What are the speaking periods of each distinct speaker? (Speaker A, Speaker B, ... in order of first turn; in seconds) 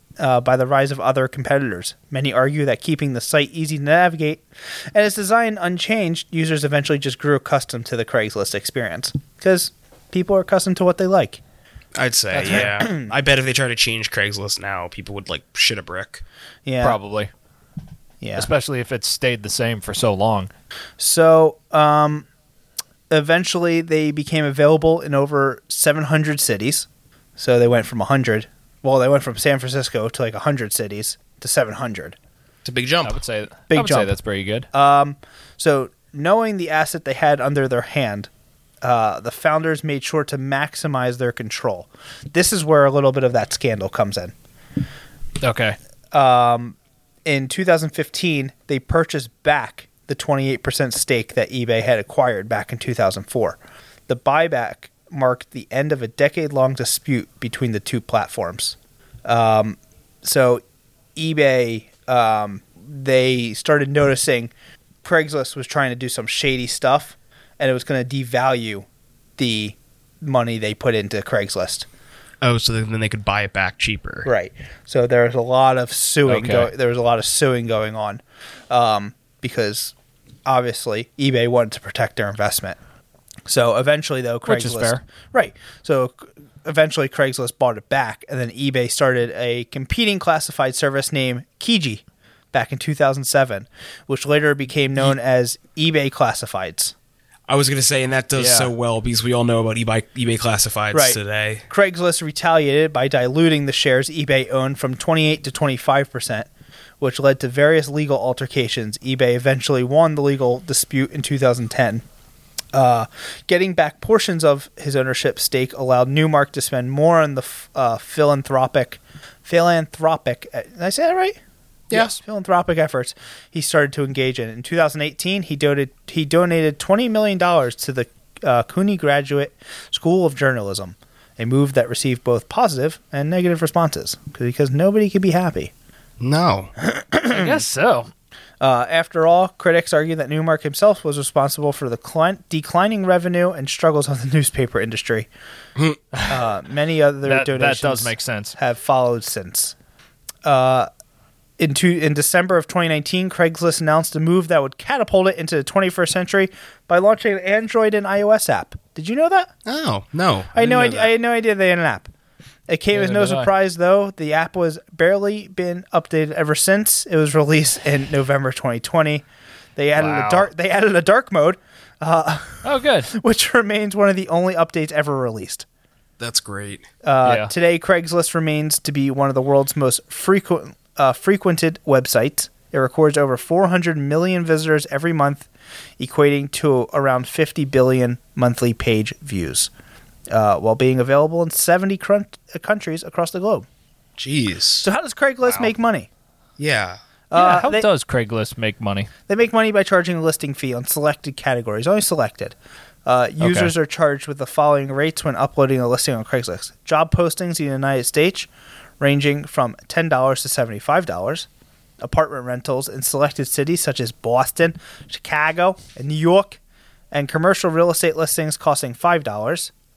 Speaker A: 0.2-11.4, 12.4-13.1, 16.7-17.0, 18.2-18.5, 21.0-22.3, 23.1-32.2, 33.7-34.1, 34.7-38.3, 38.8-44.3, 46.1-60.6, 61.2-64.5, 65.0-68.9, 69.4-71.9, 74.2-79.9, 80.5-82.8, 83.5-96.9, 100.9-106.5, 107.0-112.0, 112.7-121.4, 121.9-135.7, 136.8-137.6, 138.6-145.3, 146.3-149.8, 150.4-150.9, 151.6-159.5, 160.5-162.1, 162.7-169.2, 169.8-175.7, 177.0-185.5, 186.0-189.7, 190.3-193.7, 194.8-196.1, 197.3-197.9, 199.3-202.6, 203.1-208.5, 209.0-211.5, 212.0-216.6, 217.1-219.7
Speaker B: 11.9-16.2, 32.6-33.2, 72.4-74.3, 97.5-101.7, 136.2-136.7, 145.8-146.0, 159.7-161.1, 176.2-176.9, 194.2-194.9, 196.6-197.0
Speaker C: 12.4-12.8, 16.8-17.3, 18.4-20.5, 33.0-34.7, 45.4-45.8, 76.3-76.7, 84.5-85.0, 98.4-98.7, 137.3-138.1, 147.2-148.6, 162.9-163.5, 170.0-170.5, 172.6-173.1, 177.2-177.5, 197.3-199.1, 203.4-203.7